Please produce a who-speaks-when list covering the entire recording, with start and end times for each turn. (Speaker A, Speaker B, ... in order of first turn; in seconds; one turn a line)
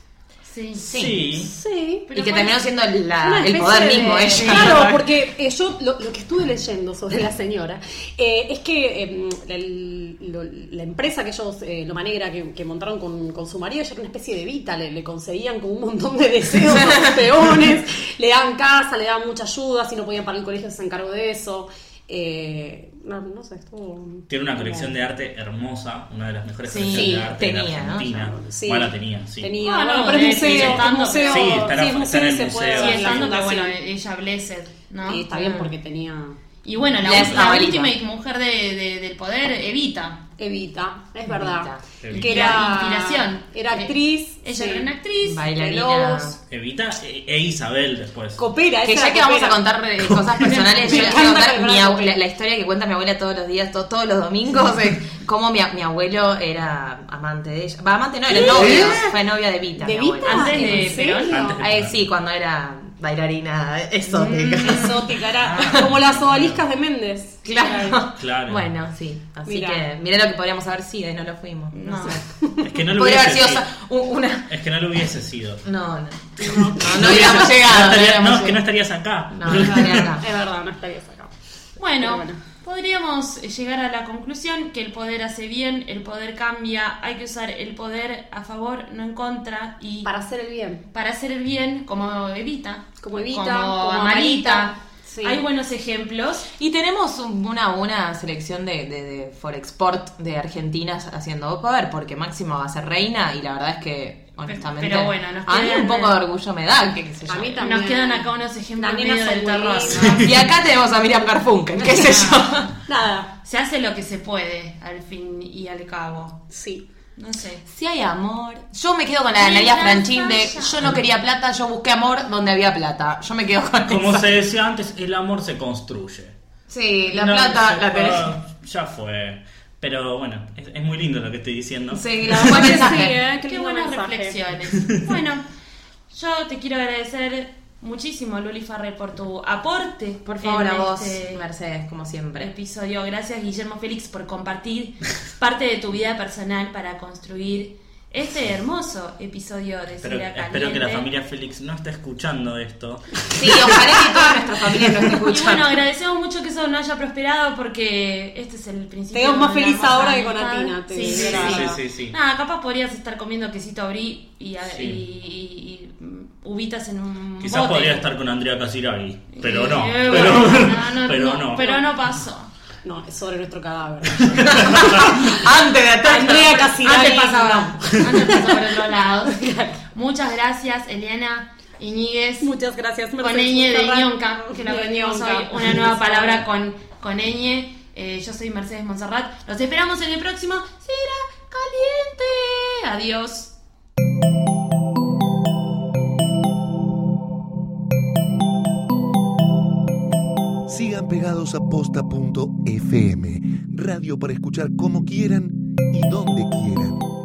Speaker A: 0.4-0.9
Speaker B: 0.8-1.2
Speaker C: 0.9-1.5
Speaker D: 1.3-2.1
Speaker A: 2.1-2.6
Speaker B: 2.1-5.0
Speaker D: 3.2-24.9
Speaker A: 4.3-4.8
Speaker C: 24.3-29.5
Speaker A: 26.7-27.2
Speaker B: 26.7-28.2
Speaker D: 28.3-33.7
Speaker A: 29.6-31.6
Speaker C: 30.1-33.3
Speaker A: 32.7-35.6
Speaker D: 35.0-36.4
Speaker A: 36.6-40.2
Speaker B: 37.0-37.9
Speaker C: 37.1-37.5
Speaker D: 40.4-44.9
Speaker B: 41.3-41.8
Speaker C: 42.0-42.6
Speaker A: 42.2-45.5
Speaker B: 45.2-46.4
Speaker D: 45.5-46.4
Speaker C: 46.5-48.4
Speaker D: 48.4-49.6
Speaker B: 48.8-65.1
Speaker C: 50.0-50.5
Speaker A: 50.4-51.3
Speaker D: 50.5-52.2
Speaker D: 58.3-59.2
Speaker C: 58.3-59.1
Speaker D: 59.8-61.5
Speaker A: 60.2-61.5
Speaker C: 61.3-62.0
Speaker D: 64.1-68.0
Speaker A: 64.3-64.9
Speaker C: 65.4-66.6
Speaker B: 67.4-72.2
Speaker C: 68.2-68.7
Speaker D: 69.5-69.8
Speaker A: 71.7-72.2
Speaker C: 72.7-73.6
Speaker B: 72.9-74.5
Speaker C: 74.5-75.6
Speaker B: 75.6-78.6
Speaker D: 76.4-77.3
Speaker C: 76.8-80.1
Speaker B: 79.3-80.2
Speaker D: 79.5-81.3
Speaker A: 81.8-90.1
Speaker D: 82.0-82.4
Speaker D: 90.0-90.8
Speaker A: 90.9-96.5
Speaker D: 93.0-95.4
Speaker B: 96.6-107.6
Speaker A: 104.4-106.2
Speaker D: 107.3-110.2
Speaker A: 107.6-110.4
Speaker B: 110.1-112.7
Speaker A: 111.8-112.7
Speaker D: 112.8-113.3
Speaker A: 113.4-116.4
Speaker D: 116.5-116.8
Speaker A: 117.2-117.6
Speaker B: 117.6-124.4
Speaker A: 119.3-121.0
Speaker C: 123.9-126.3
Speaker B: 126.7-128.3
Speaker C: 127.0-132.5
Speaker B: 131.9-133.2
Speaker D: 132.2-134.3
Speaker A: 133.4-135.4
Speaker A: 136.1-141.4
Speaker B: 140.2-142.5
Speaker A: 142.3-151.1
Speaker C: 150.0-153.8
Speaker B: 153.3-155.7
Speaker A: 155.2-168.1
Speaker D: 159.1-161.8
Speaker C: 161.0-162.2
Speaker C: 164.6-165.0
Speaker C: 167.4-171.6
Speaker A: 169.3-172.5
Speaker D: 170.1-170.4
Speaker D: 171.6-171.9
Speaker D: 172.8-175.4
Speaker C: 174.3-175.1
Speaker B: 174.7-176.7
Speaker D: 176.0-178.7
Speaker A: 176.8-182.5
Speaker D: 179.3-179.8
Speaker D: 182.4-186.4
Speaker A: 183.2-193.5
Speaker E: 200.7-207.1